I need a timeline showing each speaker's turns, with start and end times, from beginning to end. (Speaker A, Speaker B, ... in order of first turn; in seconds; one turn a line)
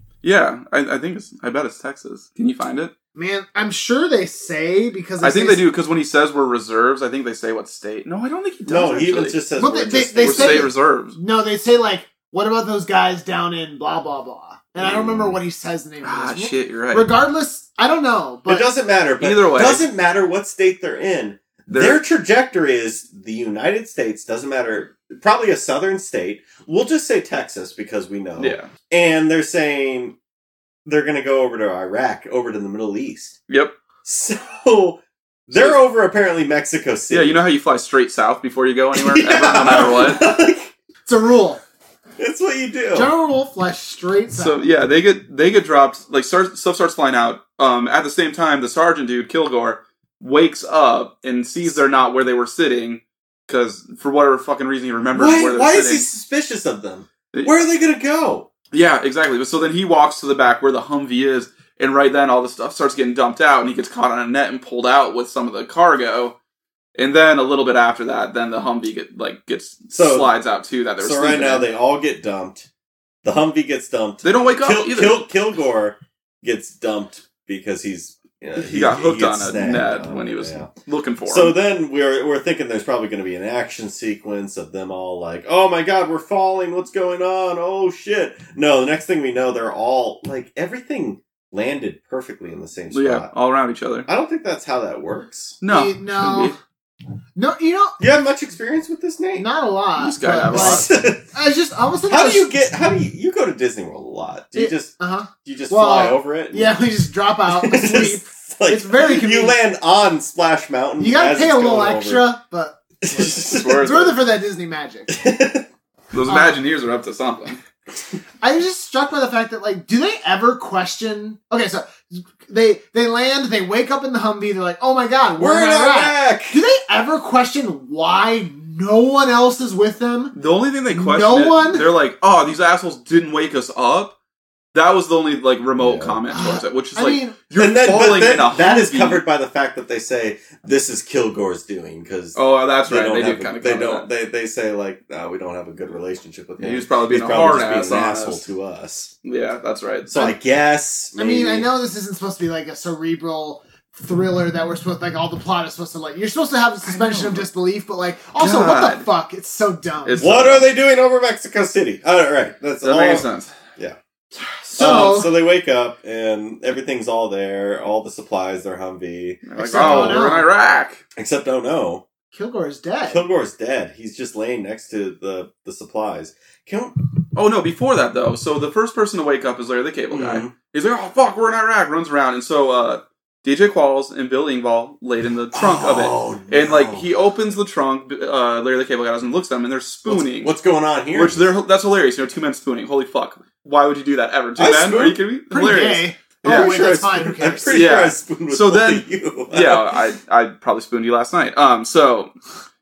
Speaker A: 0.2-2.9
Speaker B: 3.2-5.6
Speaker A: 5.2-9.4
Speaker C: 8.7-10.7
Speaker B: 9.6-18.7
Speaker A: 10.2-11.2
Speaker C: 14.8-15.4
Speaker A: 16.0-17.1
Speaker C: 18.5-30.2
Speaker A: 19.2-19.9
Speaker A: 21.7-22.0
Speaker A: 28.4-28.7
Speaker C: 30.9-33.4
Speaker A: 33.5-33.8
Speaker C: 34.0-37.4
Speaker A: 35.5-35.8
Speaker A: 37.1-40.2
Speaker C: 38.9-40.7
Speaker B: 41.1-41.6
Speaker C: 42.2-43.1
Speaker B: 42.9-44.7
Speaker A: 44.3-56.1
Speaker C: 55.1-58.5
Speaker A: 58.7-66.4
Speaker A: 67.0-71.7
Speaker C: 69.9-70.3
Speaker C: 71.0-72.7
Speaker C: 73.2-80.7
Speaker A: 74.2-75.2
Speaker A: 78.6-81.5
Speaker C: 81.3-93.3
Speaker A: 92.9-94.1
Speaker C: 94.1-95.6
Speaker A: 95.6-96.6
Speaker B: 95.7-96.6
Speaker B: 97.4-98.0
Speaker C: 98.0-99.5
Speaker B: 99.4-102.5
Speaker A: 100.0-100.9
Speaker C: 100.5-101.2
Speaker C: 102.1-106.8
Speaker B: 104.5-109.6
Speaker C: 107.5-112.3
Speaker B: 111.0-115.1
Speaker C: 113.0-113.9
Speaker A: 113.3-114.2
Speaker C: 115.1-115.7
Speaker A: 116.1-117.6
Speaker B: 116.3-116.6
Speaker B: 118.4-130.3
Speaker C: 125.4-126.6
Speaker A: 130.3-134.2
Speaker B: 130.9-131.9
Speaker A: 134.7-139.2
Speaker C: 135.8-136.2
Speaker B: 136.3-137.4
Speaker C: 137.6-149.1
Speaker A: 142.3-144.1
Speaker A: 146.6-148.5
Speaker A: 149.2-150.3
Speaker C: 150.1-151.7
Speaker B: 151.2-160.3
Speaker A: 156.9-157.4
Speaker A: 158.4-159.1
Speaker A: 160.1-160.7
Speaker C: 160.2-164.0
Speaker A: 162.8-163.5
Speaker C: 164.7-170.3
Speaker B: 164.7-165.3
Speaker A: 169.4-171.0
Speaker B: 169.6-170.5
Speaker C: 171.2-172.0
Speaker B: 172.3-173.2
Speaker C: 173.1-176.9
Speaker A: 177.3-190.5
Speaker C: 180.1-180.5
Speaker C: 185.5-187.1
Speaker C: 190.1-191.5
Speaker A: 191.1-196.9
Speaker C: 194.6-195.2
Speaker B: 195.5-197.9
Speaker C: 196.4-199.9
Speaker A: 197.7-202.3